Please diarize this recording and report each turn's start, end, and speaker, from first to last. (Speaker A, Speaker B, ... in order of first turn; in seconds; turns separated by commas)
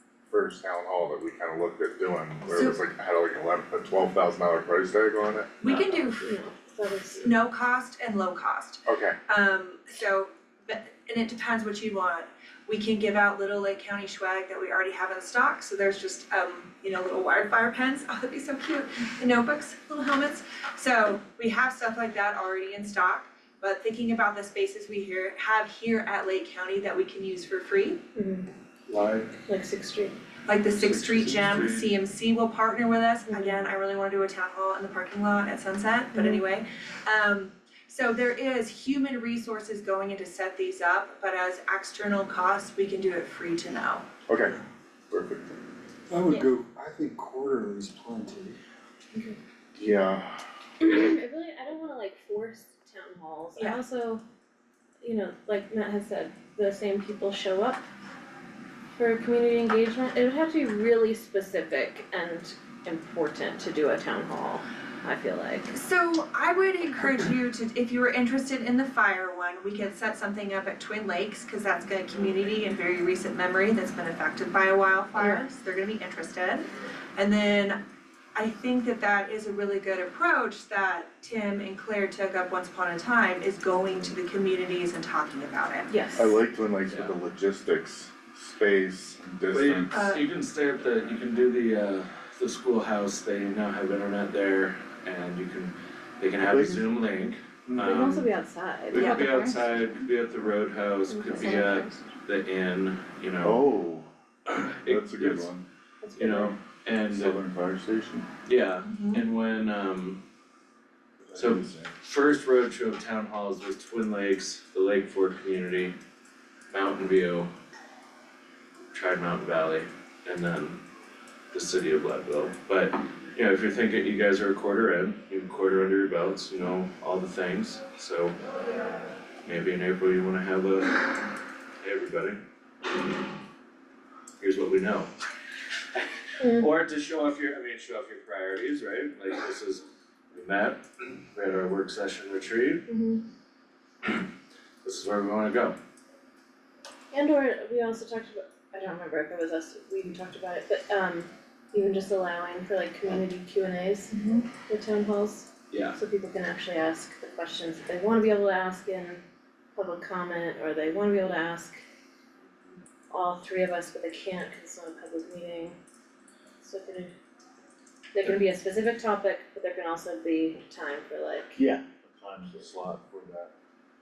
Speaker A: 0.3-5.5, Speaker B: 2.5-2.8, Speaker B: 5.6-6.3, Speaker C: 6.1-7.3, Speaker B: 7.2-28.0, Speaker A: 8.8-9.2, Speaker C: 28.1-28.5, Speaker D: 28.9-29.4, Speaker C: 29.4-30.1, Speaker B: 30.4-44.0, Speaker D: 30.8-31.9, Speaker C: 33.3-33.7, Speaker C: 36.1-36.4, Speaker A: 44.3-44.5, Speaker A: 45.1-45.5, Speaker D: 46.1-48.6, Speaker C: 49.1-49.4, Speaker A: 49.7-50.4, Speaker C: 50.8-54.2, Speaker C: 55.0-57.8, Speaker C: 58.9-65.7, Speaker B: 65.7-77.8, Speaker C: 75.2-75.5, Speaker B: 78.3-85.9, Speaker C: 85.9-86.4, Speaker A: 86.2-89.9, Speaker E: 86.9-87.1, Speaker E: 89.5-98.2, Speaker B: 89.9-90.2, Speaker A: 96.4-96.8, Speaker A: 97.7-98.1, Speaker C: 97.8-99.2, Speaker E: 98.9-103.6, Speaker C: 101.1-102.1, Speaker A: 103.4-105.6, Speaker E: 104.5-105.5, Speaker C: 106.0-106.5, Speaker E: 106.2-107.4, Speaker A: 107.0-108.3, Speaker E: 108.4-110.2, Speaker B: 108.8-109.2, Speaker A: 111.2-111.9, Speaker E: 111.3-115.9, Speaker E: 116.7-117.5, Speaker E: 118.9-120.8, Speaker E: 121.5-128.3, Speaker E: 129.4-131.2, Speaker E: 131.8-132.4, Speaker E: 134.4-135.1, Speaker C: 136.4-136.7, Speaker E: 136.6-142.8, Speaker C: 142.9-143.2, Speaker E: 144.8-145.8, Speaker C: 147.1-159.2, Speaker B: 154.1-154.5, Speaker E: 155.7-156.0, Speaker C: 159.7-161.8, Speaker C: 163.1-165.8, Speaker C: 166.6-167.1, Speaker C: 168.1-171.6, Speaker A: 171.6-173.5